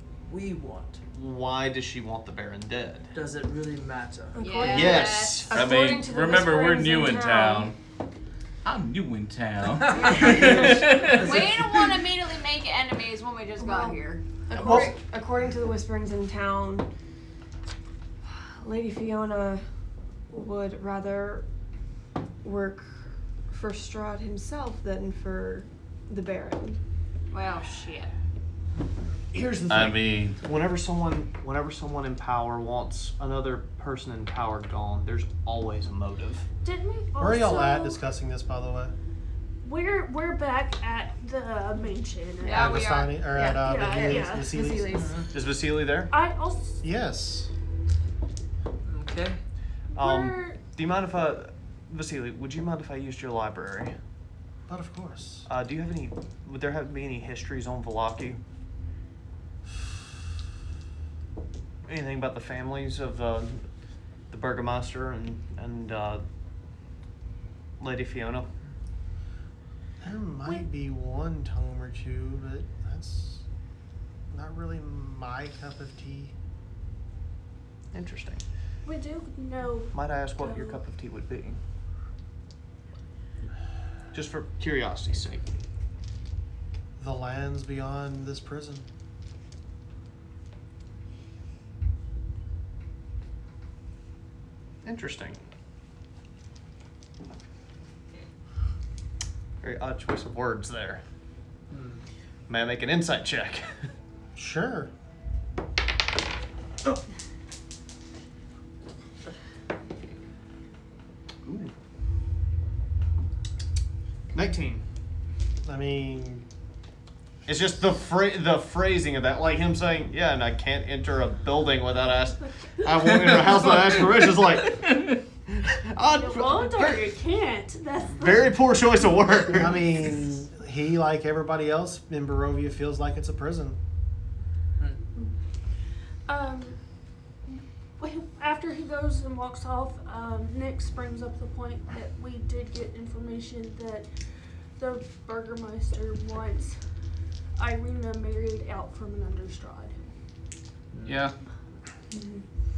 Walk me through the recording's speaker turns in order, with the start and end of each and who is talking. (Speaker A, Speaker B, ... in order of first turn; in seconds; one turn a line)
Speaker A: 0.3-1.0
Speaker B: 1.1-3.1
Speaker A: 3.1-4.5
Speaker C: 4.4-7.7
Speaker D: 4.4-5.5
Speaker B: 4.6-5.5
Speaker E: 5.5-7.8
Speaker E: 8.7-11.3
Speaker A: 9.9-11.6
Speaker C: 10.3-10.7
Speaker D: 11.1-14.2
Speaker C: 13.6-16.9
Speaker F: 14.6-14.9
Speaker C: 18.4-19.6
Speaker C: 20.3-21.4
Speaker C: 22.4-26.8
Speaker D: 27.3-28.1
Speaker B: 29.3-36.5
Speaker E: 29.7-30.4
Speaker G: 36.6-38.0
Speaker F: 37.2-39.0
Speaker G: 39.6-42.8
Speaker D: 42.4-43.4
Speaker F: 42.5-44.9
Speaker C: 42.5-45.2
Speaker G: 43.6-44.8
Speaker A: 44.9-45.3
Speaker B: 45.3-46.1
Speaker G: 46.1-46.8
Speaker F: 46.8-47.5
Speaker A: 48.9-49.4
Speaker G: 49.9-50.6
Speaker B: 50.0-53.9
Speaker F: 54.7-55.5
Speaker B: 55.5-58.4
Speaker B: 61.9-63.7
Speaker B: 64.3-66.2
Speaker B: 67.8-68.5
Speaker F: 70.0-73.5
Speaker F: 74.3-76.3
Speaker B: 77.9-78.4
Speaker G: 78.8-80.8
Speaker B: 79.9-81.6
Speaker B: 84.1-85.6
Speaker F: 87.0-88.9
Speaker B: 94.8-95.4
Speaker B: 99.6-101.0
Speaker A: 101.7-102.0
Speaker B: 102.5-103.9
Speaker F: 104.3-104.9
Speaker B: 111.5-111.7
Speaker B: 114.3-114.8
Speaker F: 115.6-116.5
Speaker B: 117.5-127.1
Speaker G: 123.0-123.7
Speaker G: 126.2-128.5
Speaker B: 128.1-130.1
Speaker F: 129.5-133.8
Speaker G: 136.3-136.8
Speaker G: 138.0-144.1
Speaker G: 144.8-146.8
Speaker G: 147.6-150.1
Speaker A: 150.9-151.2
Speaker E: 151.1-151.3
Speaker C: 152.1-152.4